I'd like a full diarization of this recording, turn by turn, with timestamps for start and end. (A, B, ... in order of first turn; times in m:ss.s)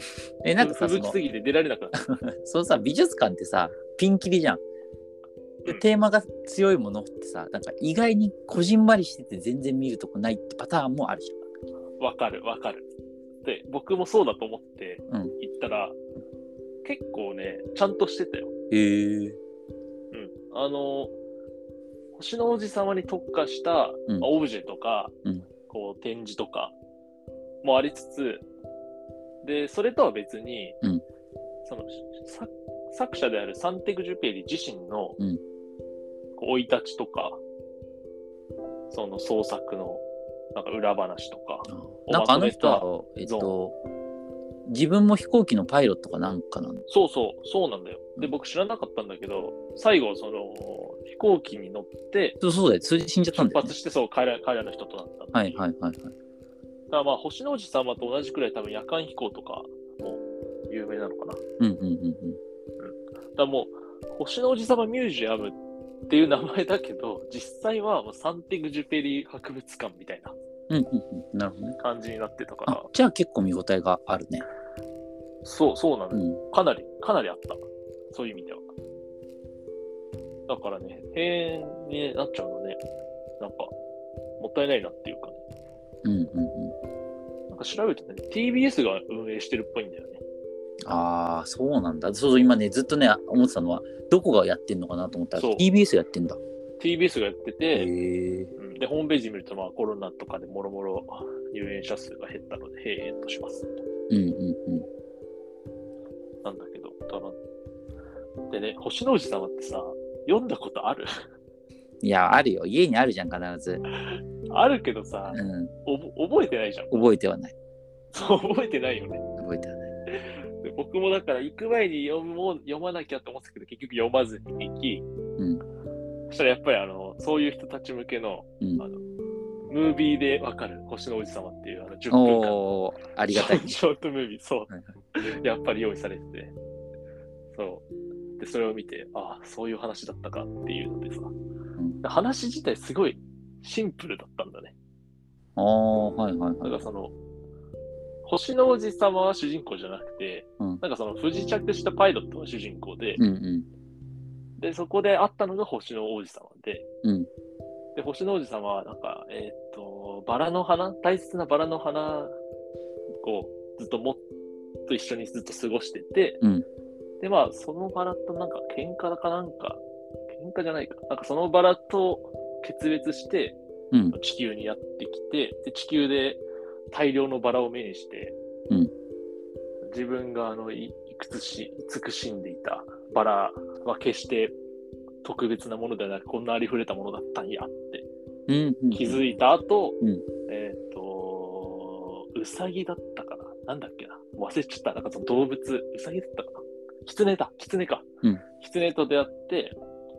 0:00.4-0:01.2 A
0:00.6-0:02.1 B
0:02.0-0:04.6 A
0:05.6-0:11.4 A
0:12.0-0:12.9 B
0:13.4-0:16.0 B
0:15.1-0:15.4 A
0:16.8-0:18.5 B
0:18.7-0:19.4 A
0:20.1-0:21.1 B
0:22.2-0:25.1 B
0:25.7-0:26.7 B
0:27.6-0:28.4 B
0:29.4-0:30.8 B
0:31.6-0:35.2 B
0:36.4-0:37.4 B
0:38.9-0:40.0 B
0:40.6-0:43.6 B
0:41.7-0:43.8 A
0:44.7-0:46.8 A
0:46.9-0:52.4 B
0:52.4-0:53.8 A
0:53.3-0:55.6 B
0:55.3-0:56.1 A
0:56.9-1:01.4 B
1:01.6-1:02.4 A
1:02.8-1:05.6 B
1:06.1-1:10.4 B
1:10.7-1:11.8 A
1:11.8-1:12.9 B
1:12.7-1:14.5 A
1:15.4-1:17.6 B
1:16.1-1:16.4 A
1:18.1-1:18.7 B
1:20.5-1:22.8 B
1:23.4-1:23.7 B
1:24.4-1:25.4 B
1:26.0-1:26.8 A
1:27.5-1:30.2 B
1:30.9-1:36.4 A
1:35.4-1:35.7 B
1:36.8-1:37.9 B
1:37.7-1:38.5 A
1:38.6-1:43.7 B
1:44.1-1:44.9 A
1:46.4-1:47.4 B
1:48.5-1:51.1 B
1:52.0-1:53.8 A
1:54.0-1:57.1 B
1:55.3-1:55.7 A
1:56.9-1:57.5 A
1:58.1-1:59.2 B
1:59.4-1:59.9 A
2:00.1-2:05.0 B
2:05.4-2:05.6 A
2:06.3-2:09.0 B
2:09.7-2:12.6 B
2:12.1-2:13.8 A
2:13.3-2:16.5 B
2:17.5-2:17.9 B
2:18.4-2:21.3 B
2:22.0-2:24.7 B
2:25.6-2:26.8 A
2:26.6-2:27.1 B
2:28.2-2:33.2 B
2:33.2-2:33.7 A
2:34.6-2:36.9 B
2:37.0-2:37.3 A
2:38.0-2:42.4 B
2:43.2-2:44.2 B
2:44.9-2:46.4 B
2:47.2-2:53.6 B
2:54.1-2:58.4 B
2:59.9-3:04.6 B
3:05.2-3:08.1 B
3:08.5-3:09.2 A
3:08.9-3:18.1 B
3:18.6-3:19.8 B